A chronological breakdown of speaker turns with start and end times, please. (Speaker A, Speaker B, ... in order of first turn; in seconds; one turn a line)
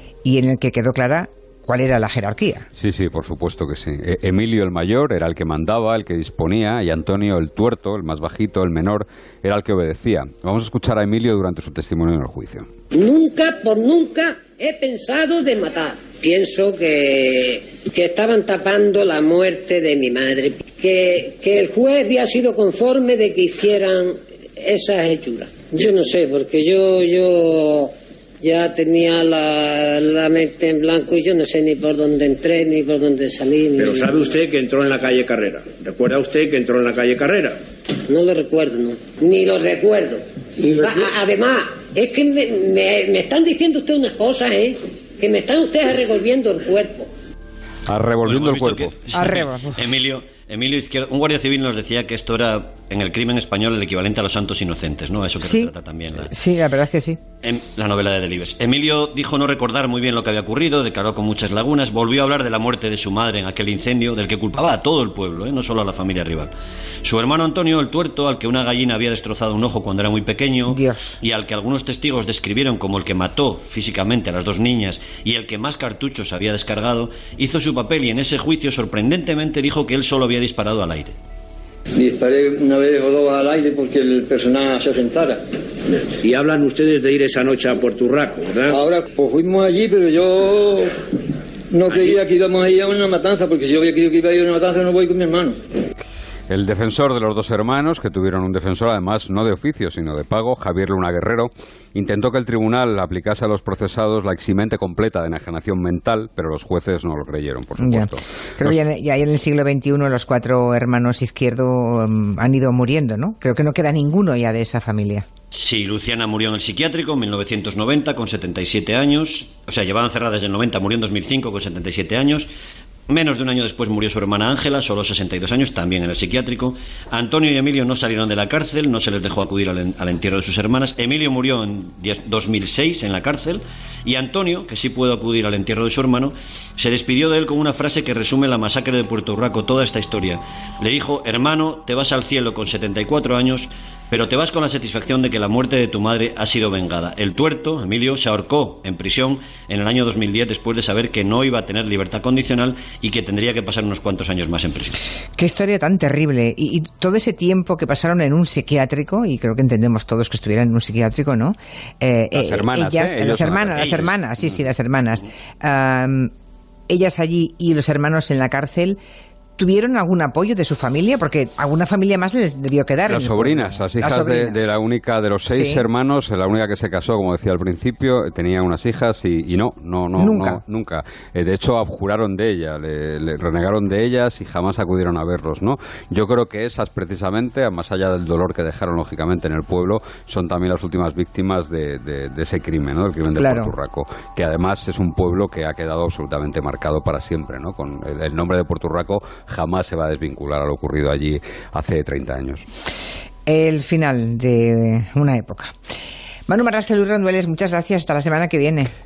Speaker A: 0.2-2.7
Speaker B: 2.8-12.7
Speaker C: 12.9-34.5
Speaker D: 34.6-37.5
Speaker C: 38.1-47.1
Speaker B: 47.9-49.0
Speaker E: 48.2-56.3
Speaker A: 49.1-49.8
Speaker A: 55.4-55.7
Speaker A: 56.2-57.2
Speaker E: 57.4-66.5
Speaker E: 67.0-81.2
Speaker A: 70.7-71.2
Speaker F: 81.9-85.4
Speaker D: 86.2-88.7
Speaker F: 88.7-90.9
Speaker F: 91.7-95.6
Speaker B: 96.5-108.8
Speaker A: 107.8-115.2
Speaker E: 115.5-122.5
Speaker E: 123.1-155.0
Speaker A: 155.4-166.3
Speaker B: 162.3-164.0
Speaker E: 163.8-164.1
Speaker A: 166.9-169.0
Speaker A: 169.6-174.7
Speaker B: 173.1-202.7
Speaker A: 175.5-175.8
Speaker A: 180.2-180.6
Speaker A: 193.4-193.7
Speaker A: 203.5-205.7
Speaker A: 206.5-208.9